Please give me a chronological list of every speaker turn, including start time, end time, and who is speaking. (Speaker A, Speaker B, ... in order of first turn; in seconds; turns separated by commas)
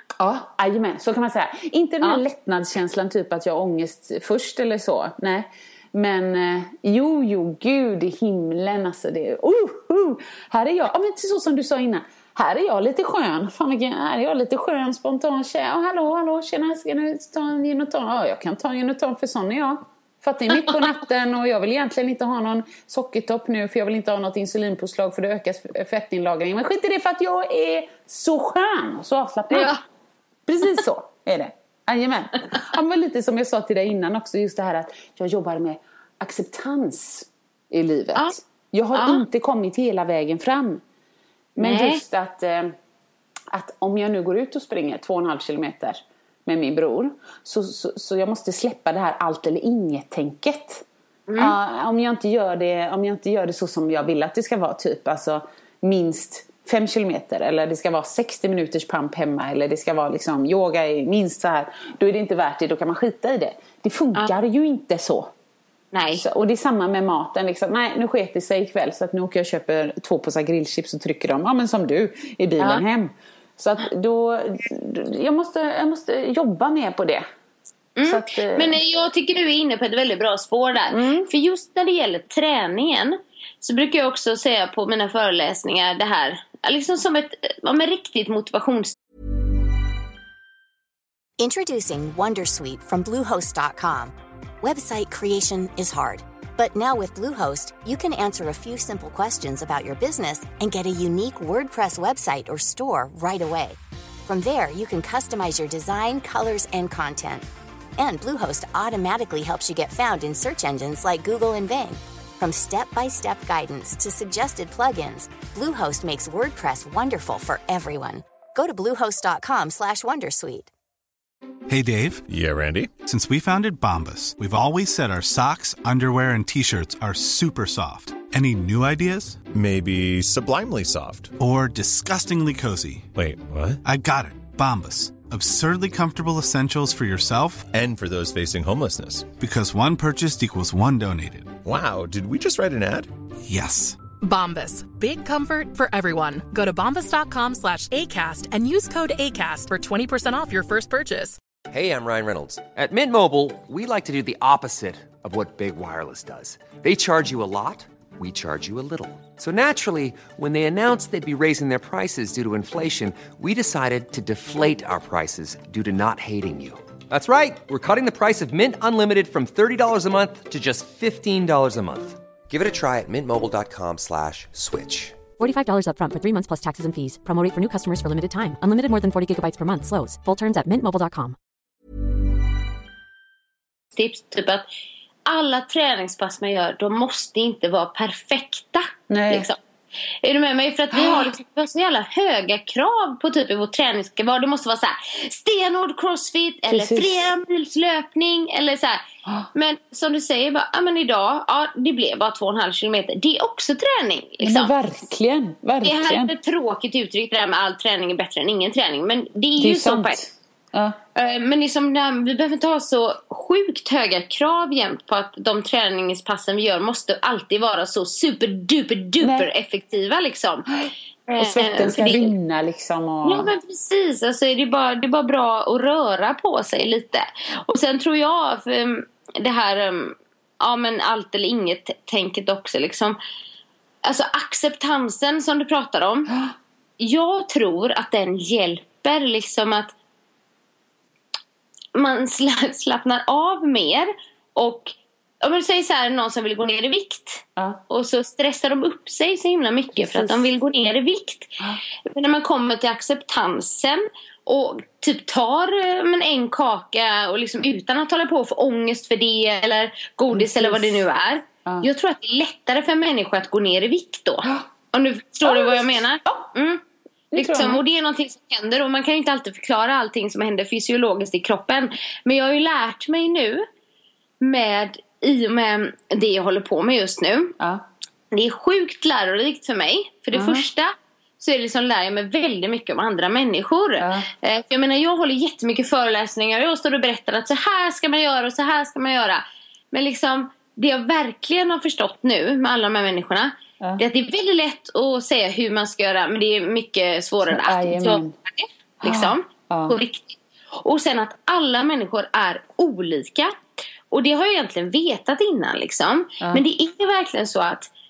Speaker A: 0.2-29.7, Speaker B: 29.5-29.8, Speaker A: 30.4-40.8, Speaker B: 38.9-39.2, Speaker A: 41.6-42.7, Speaker B: 41.6-42.0, Speaker A: 43.5-50.8, Speaker B: 51.3-51.5, Speaker A: 51.4-65.3, Speaker B: 65.9-66.2, Speaker A: 66.2-77.2, Speaker B: 78.0-88.9, Speaker A: 78.0-78.8, Speaker A: 80.9-81.3, Speaker C: 91.4-107.5, Speaker C: 108.0-120.7, Speaker D: 121.7-122.2, Speaker E: 122.3-122.9, Speaker D: 122.9-129.4, Speaker E: 129.5-131.3, Speaker D: 131.4-133.1, Speaker E: 133.1-133.8, Speaker D: 133.8-137.7, Speaker E: 137.7-139.3, Speaker D: 139.3-141.6, Speaker E: 141.6-143.1, Speaker D: 143.4-144.0, Speaker F: 144.2-151.4, Speaker G: 151.7-175.2, Speaker H: 175.4-181.3, Speaker B: 183.9-184.6, Speaker B: 185.2-189.6, Speaker A: 189.1-189.5, Speaker B: 190.2-199.0, Speaker A: 190.9-191.2, Speaker A: 196.7-197.3, Speaker B: 199.5-204.7, Speaker A: 204.4-206.3, Speaker B: 205.8-210.2, Speaker A: 209.6-211.0, Speaker B: 211.2-220.7, Speaker A: 219.2-219.5, Speaker A: 220.8-223.5, Speaker B: 221.3-222.3, Speaker B: 223.2-233.2, Speaker B: 234.0-236.3, Speaker B: 237.0-239.9, Speaker B: 241.9-266.8, Speaker A: 249.9-250.5, Speaker A: 260.3-261.0, Speaker A: 265.4-266.5, Speaker A: 267.3-267.8, Speaker B: 267.3-273.6, Speaker B: 274.4-277.6, Speaker B: 278.3-303.5, Speaker A: 280.3-280.6, Speaker A: 284.0-284.3, Speaker A: 297.4-298.3, Speaker A: 299.0-299.9, Speaker B: 304.1-307.9